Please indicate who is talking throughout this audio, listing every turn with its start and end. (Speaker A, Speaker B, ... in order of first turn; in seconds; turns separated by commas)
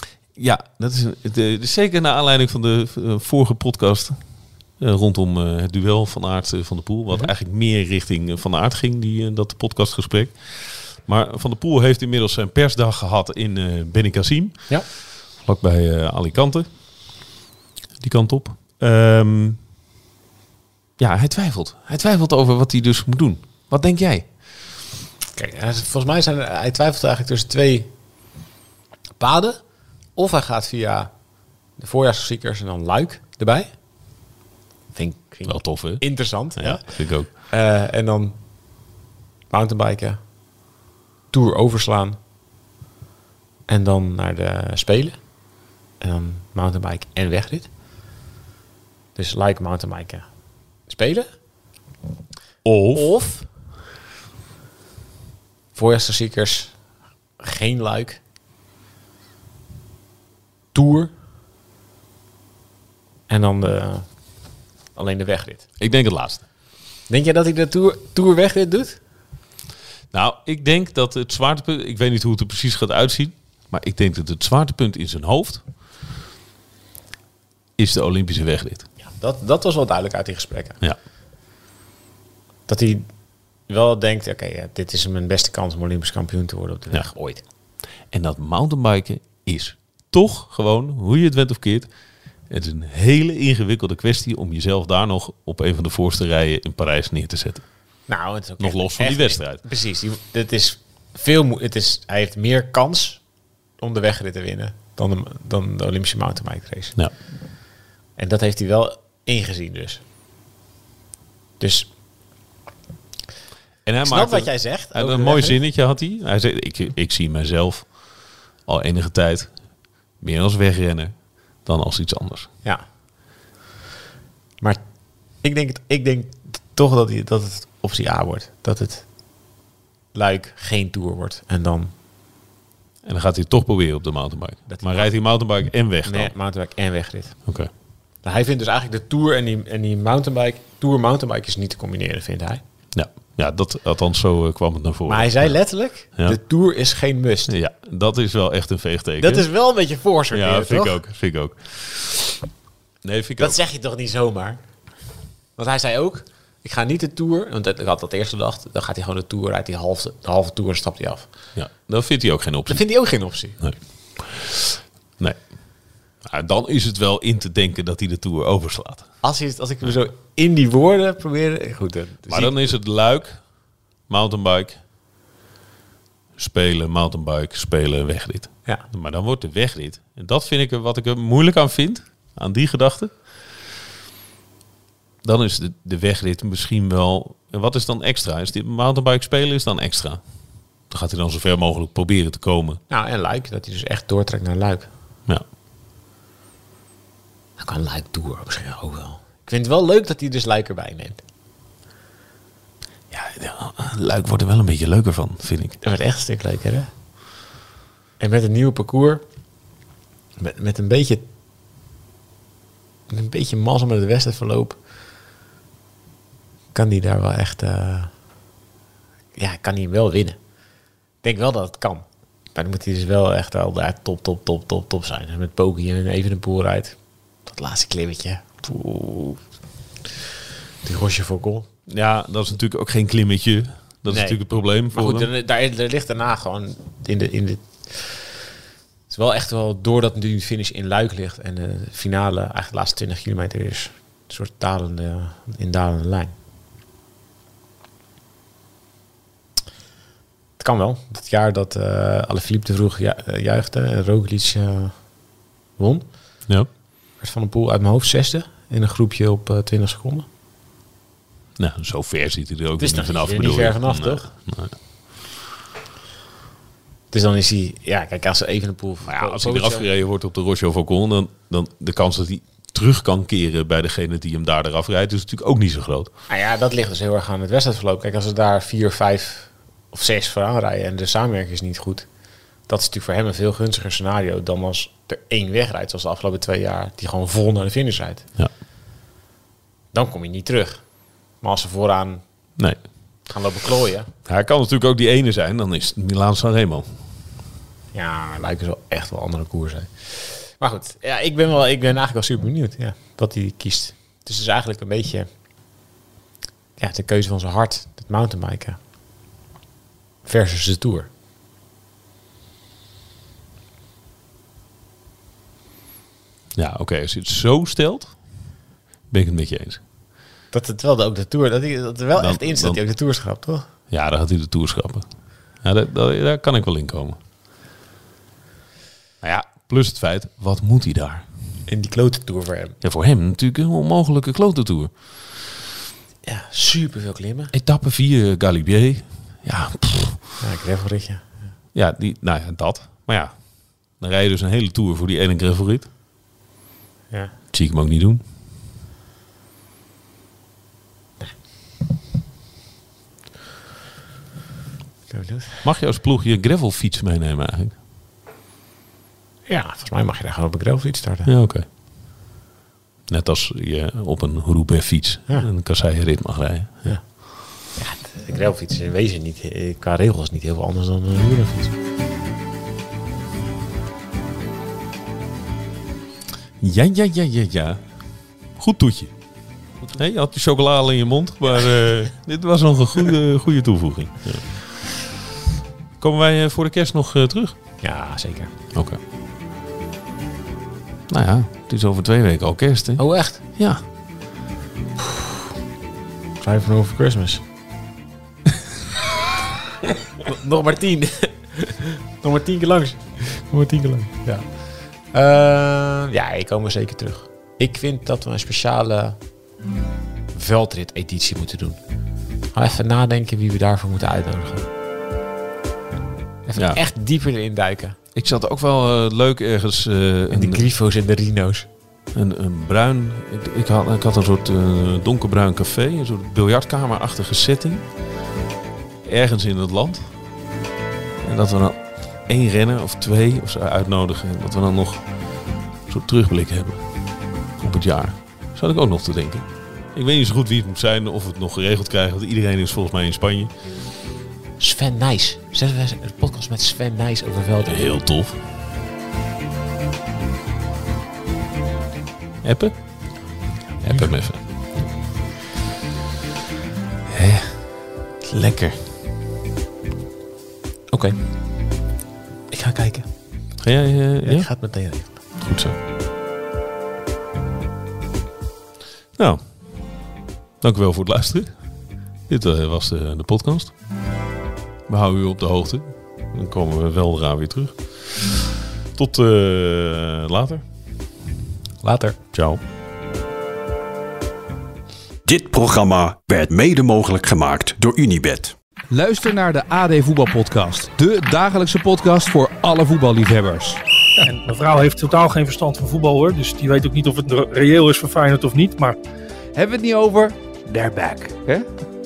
Speaker A: 0.3-17.2, Speaker A: 18.0-19.6, Speaker A: 21.0-24.5, Speaker B: 25.3-27.9, Speaker B: 29.2-33.7, Speaker B: 34.9-38.4, Speaker A: 35.4-37.3, Speaker B: 39.5-40.2, Speaker B: 41.3-42.2, Speaker B: 43.7-45.4, Speaker B: 46.0-47.7, Speaker B: 49.1-51.3, Speaker A: 52.6-53.2, Speaker B: 52.9-53.5, Speaker B: 55.7-56.9, Speaker B: 57.4-58.2, Speaker B: 60.7-61.1, Speaker B: 63.3-65.7, Speaker A: 65.8-66.5, Speaker B: 67.1-69.0, Speaker A: 70.1-75.7, Speaker A: 77.8-78.9, Speaker B: 79.0-80.8, Speaker B: 82.7-87.4, Speaker A: 88.0-91.9, Speaker A: 92.4-99.6, Speaker B: 98.1-107.3, Speaker B: 108.2-110.0, Speaker B: 111.6-111.9, Speaker A: 113.8-122.5, Speaker B: 114.0-115.6, Speaker B: 124.6-129.1, Speaker B: 130.1-131.9, Speaker A: 133.0-136.4, Speaker B: 134.7-142.6, Speaker A: 137.4-137.7, Speaker A: 142.9-146.4, Speaker B: 145.1-147.6, Speaker A: 147.5-149.5, Speaker B: 149.2-151.0, Speaker A: 150.3-152.4, Speaker A: 153.0-153.6, Speaker B: 153.4-161.3, Speaker A: 161.6-169.2, Speaker B: 162.7-163.6, Speaker B: 169.2-172.8, Speaker A: 172.3-174.8, Speaker A: 176.4-183.3, Speaker A: 185.2-192.8, Speaker B: 192.9-194.9, Speaker B: 197.6-201.2, Speaker A: 203.1-205.8, Speaker B: 205.8-206.9, Speaker B: 208.2-209.2, Speaker B: 210.4-211.2, Speaker B: 213.1-214.8, Speaker B: 216.7-218.2, Speaker B: 219.4-220.4, Speaker B: 221.2-229.5, Speaker B: 230.8-231.7, Speaker A: 231.9-235.3, Speaker B: 234.1-238.3, Speaker B: 239.1-246.3, Speaker B: 250.6-256.6, Speaker B: 257.2-260.3, Speaker A: 261.6-264.8, Speaker B: 262.8-264.3, Speaker B: 267.1-269.9, Speaker A: 269.0-276.1, Speaker B: 276.3-288.3, Speaker B: 289.9-294.1, Speaker A: 292.6-292.9, Speaker A: 294.3-297.1, Speaker B: 297.9-305.3, Speaker B: 306.8-308.8, Speaker B: 310.2-311.1, Speaker A: 316.6-319.8, Speaker B: 320.5-323.7, Speaker A: 322.2-322.8, Speaker A: 323.9-327.2, Speaker A: 329.2-331.3, Speaker B: 331.7-332.8, Speaker A: 332.8-335.2, Speaker B: 336.2-337.5, Speaker A: 337.5-340.3, Speaker B: 340.4-341.5, Speaker A: 341.7-345.9, Speaker A: 347.5-348.2, Speaker B: 355.1-355.6, Speaker A: 355.6-357.8, Speaker B: 359.5-361.3, Speaker A: 361.2-361.7, Speaker A: 363.1-367.1, Speaker B: 366.8-371.7, Speaker A: 376.6-385.1, Speaker A: 386.0-387.6, Speaker B: 387.8-388.5, Speaker A: 388.7-389.0, Speaker A: 391.1-393.8, Speaker B: 393.0-393.4, Speaker B: 396.4-397.4, Speaker B: 400.2-409.2, Speaker B: 410.3-411.8, Speaker B: 412.4-414.7, Speaker B: 416.4-417.9, Speaker A: 416.6-416.8, Speaker A: 418.1-420.7, Speaker B: 420.3-421.7, Speaker A: 422.1-428.0, Speaker A: 429.0-430.2, Speaker A: 431.2-443.7, Speaker B: 444.6-447.9, Speaker A: 447.6-448.4, Speaker A: 452.4-453.1, Speaker B: 453.6-454.2, Speaker A: 453.8-454.6, Speaker A: 457.1-457.7, Speaker B: 458.3-458.8, Speaker B: 460.9-461.3, Speaker B: 462.5-463.6, Speaker A: 463.6-465.7, Speaker B: 464.2-465.7, Speaker A: 469.2-470.1, Speaker A: 470.6-473.8, Speaker A: 474.9-480.7, Speaker B: 481.8-482.2, Speaker A: 482.3-482.6, Speaker C: 485.3-488.6, Speaker D: 488.9-493.8, Speaker E: 494.2-499.0, Speaker D: 499.5-501.3